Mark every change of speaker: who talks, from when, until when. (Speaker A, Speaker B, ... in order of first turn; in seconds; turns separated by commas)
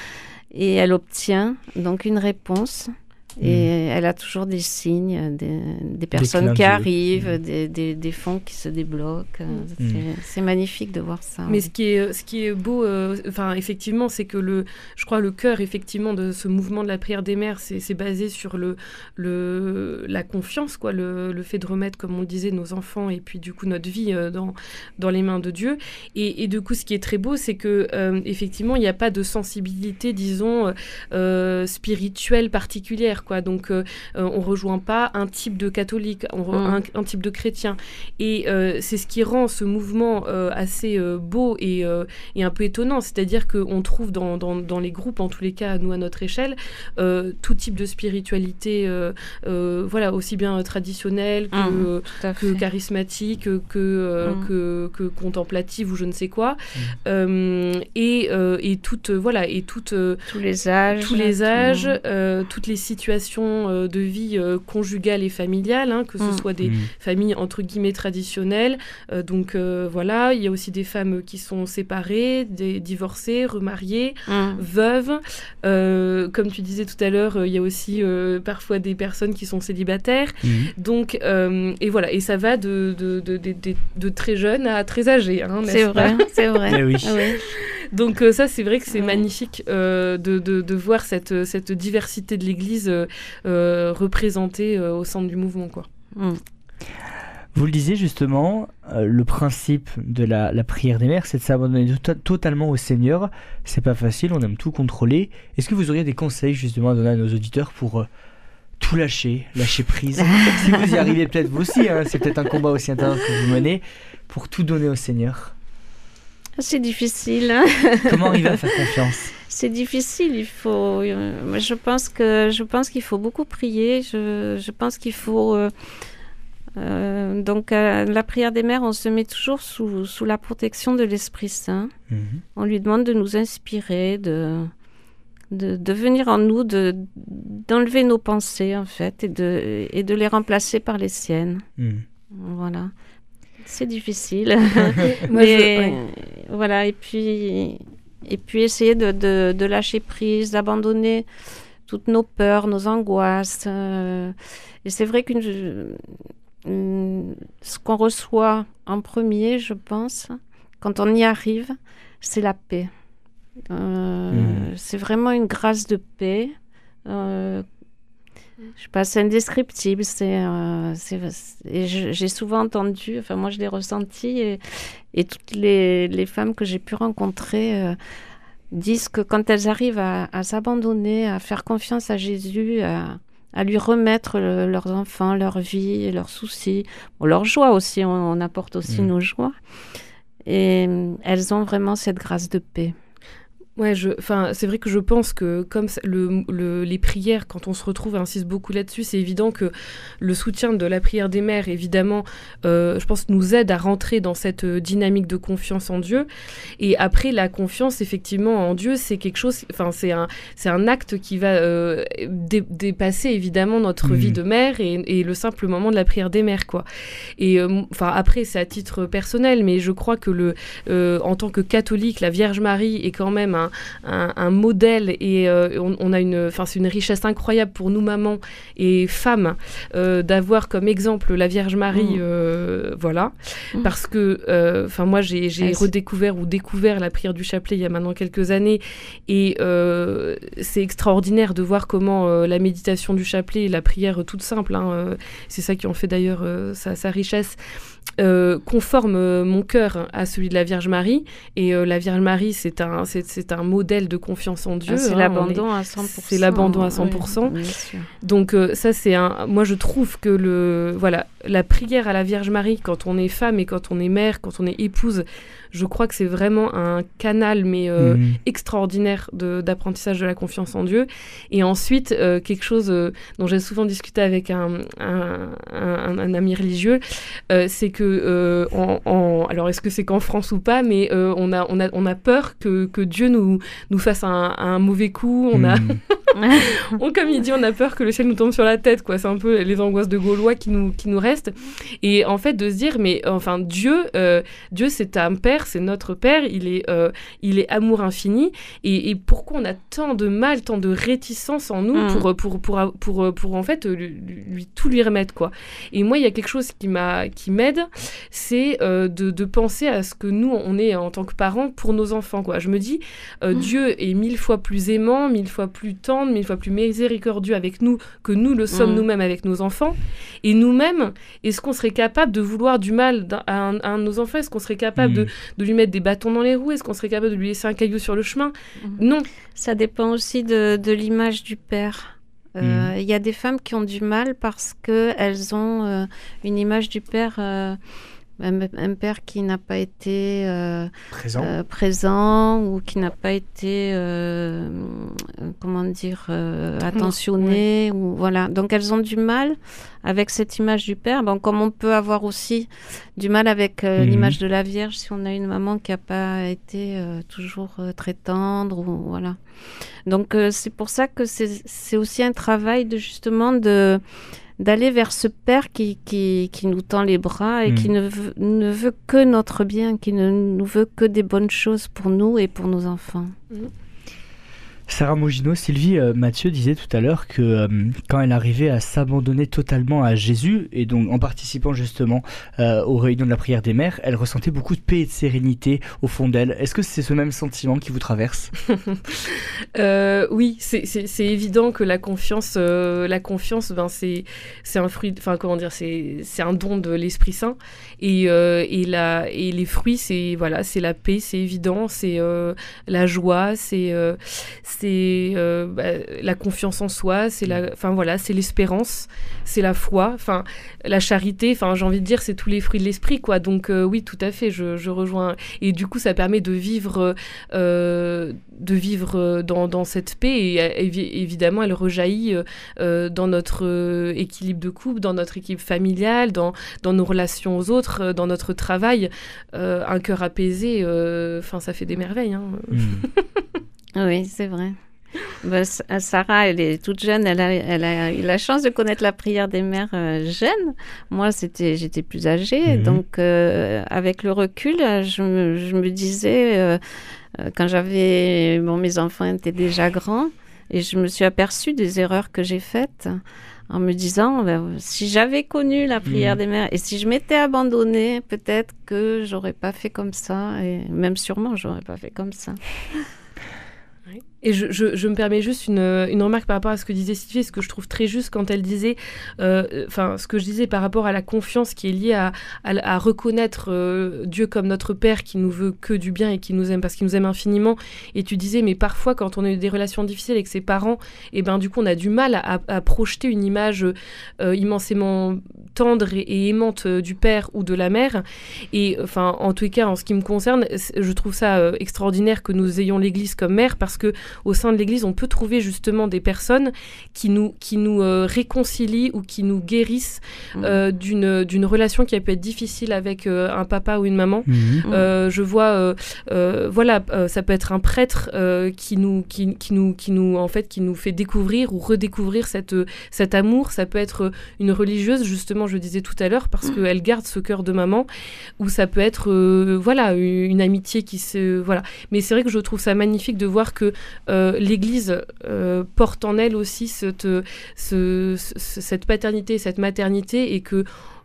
Speaker A: 0.5-11.7, Speaker B: 3.4-3.7, Speaker B: 6.1-7.3, Speaker B: 9.8-10.0, Speaker C: 11.5-60.2, Speaker A: 36.5-36.8, Speaker A: 51.5-52.6, Speaker A: 60.3-62.0, Speaker C: 60.9-86.8, Speaker B: 66.6-66.9, Speaker A: 74.3-74.6, Speaker B: 80.4-80.7, Speaker A: 85.7-87.4, Speaker B: 86.7-87.2, Speaker C: 87.3-95.9, Speaker A: 89.0-89.2, Speaker A: 96.1-96.4, Speaker B: 97.5-108.1, Speaker B: 108.8-115.5, Speaker A: 110.2-110.9, Speaker A: 116.6-118.8, Speaker B: 118.1-119.3, Speaker A: 119.4-125.7, Speaker A: 126.8-131.9, Speaker B: 132.1-132.4, Speaker A: 132.6-134.7, Speaker A: 135.5-141.6, Speaker B: 141.8-142.0, Speaker A: 142.3-142.9, Speaker A: 143.6-151.2, Speaker C: 145.0-146.0, Speaker A: 151.8-156.1, Speaker A: 156.6-162.9, Speaker A: 163.7-166.5, Speaker B: 164.3-164.7, Speaker A: 167.1-167.6, Speaker A: 168.8-174.6, Speaker A: 175.1-178.0, Speaker A: 178.7-189.5, Speaker A: 190.4-192.9, Speaker C: 193.8-206.3, Speaker C: 206.8-216.8, Speaker B: 214.0-214.4, Speaker C: 217.4-247.6, Speaker A: 231.9-232.2, Speaker A: 235.6-235.9, Speaker C: 248.2-257.6, Speaker A: 254.9-258.1, Speaker C: 258.2-329.3, Speaker B: 268.0-268.4, Speaker B: 285.5-286.0, Speaker A: 286.3-286.9, Speaker A: 301.9-302.2, Speaker A: 318.7-319.0, Speaker B: 325.0-325.3, Speaker A: 329.5-337.8, Speaker B: 332.6-332.9, Speaker A: 338.4-359.4, Speaker B: 341.1-341.5, Speaker C: 346.9-347.6, Speaker B: 354.0-354.4, Speaker A: 360.1-364.0, Speaker A: 364.6-373.4, Speaker B: 367.6-367.9, Speaker B: 374.9-388.5, Speaker C: 388.8-433.4, Speaker B: 432.7-433.1, Speaker A: 433.9-434.8, Speaker A: 435.3-446.8, Speaker B: 442.7-443.0, Speaker A: 447.3-463.1, Speaker B: 456.1-456.4, Speaker C: 464.1-518.1, Speaker A: 500.5-500.8, Speaker B: 504.5-504.8, Speaker C: 518.6-530.9